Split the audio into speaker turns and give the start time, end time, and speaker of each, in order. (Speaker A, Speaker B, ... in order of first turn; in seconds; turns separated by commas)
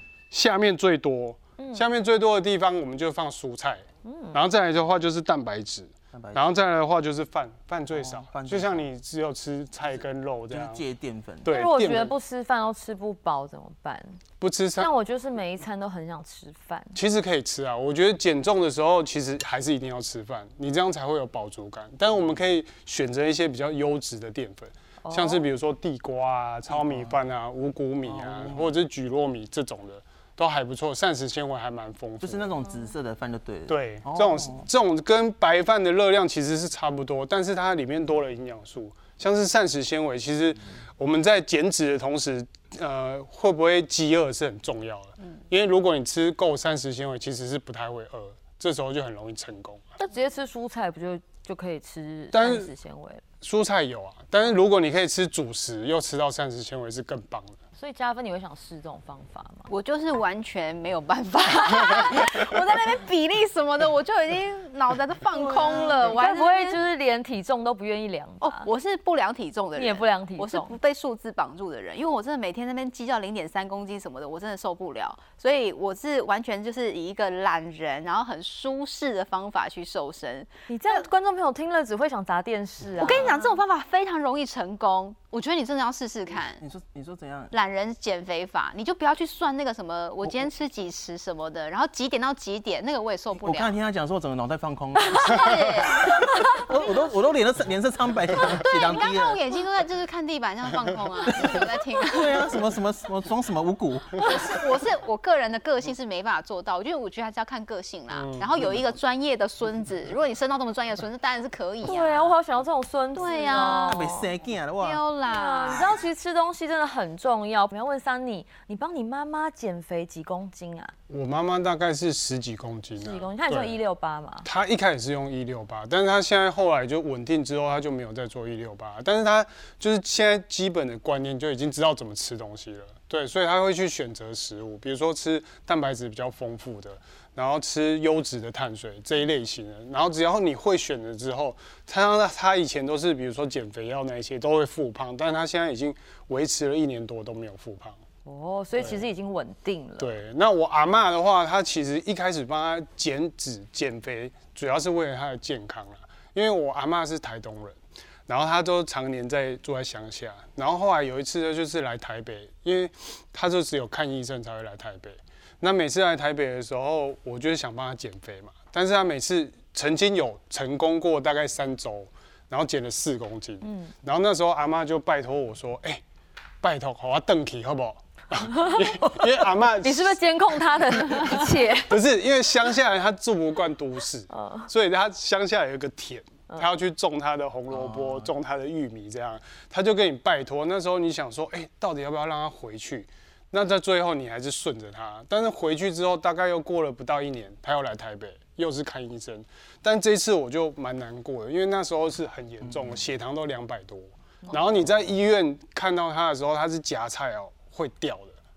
Speaker A: 0.3-10.8, Speaker B: 1.6-1.9, Speaker B: 4.0-4.4, Speaker C: 6.1-6.5, Speaker C: 7.9-8.8, Speaker C: 10.5-11.5, Speaker A: 11.4-12.1, Speaker B: 11.4-14.2, Speaker A: 14.4-14.9, Speaker B: 14.8-17.0, Speaker A: 16.9-32.5, Speaker B: 25.0-25.4, Speaker C: 26.7-27.1, Speaker C: 28.1-28.7, Speaker C: 32.2-34.6, Speaker A: 33.7-49.8, Speaker B: 50.0-53.2, Speaker A: 52.3-52.7, Speaker A: 53.4-57.6, Speaker B: 57.8-59.7, Speaker D: 59.7-66.8, Speaker B: 65.3-68.7, Speaker D: 68.4-81.0, Speaker B: 69.8-70.7, Speaker B: 80.7-83.5, Speaker D: 83.0-86.6, Speaker C: 86.6-87.5, Speaker D: 87.5-93.7, Speaker C: 93.4-99.4, Speaker D: 95.0-97.1, Speaker D: 98.4-102.5, Speaker C: 101.3-104.5, Speaker D: 104.2-112.3, Speaker A: 108.1-108.5, Speaker B: 111.8-114.3, Speaker D: 113.1-114.0, Speaker C: 113.6-115.0, Speaker D: 114.8-116.0, Speaker B: 115.3-120.9, Speaker A: 121.1-123.8, Speaker B: 123.0-124.5, Speaker A: 124.4-148.0, Speaker B: 148.2-150.1, Speaker A: 150.0-157.8, Speaker A: 158.3-176.0, Speaker B: 173.6-173.9, Speaker A: 176.6-180.2, Speaker B: 178.4-178.9, Speaker B: 179.8-182.0, Speaker A: 181.4-208.4, Speaker B: 184.3-184.7, Speaker C: 187.7-188.3, Speaker C: 202.7-203.0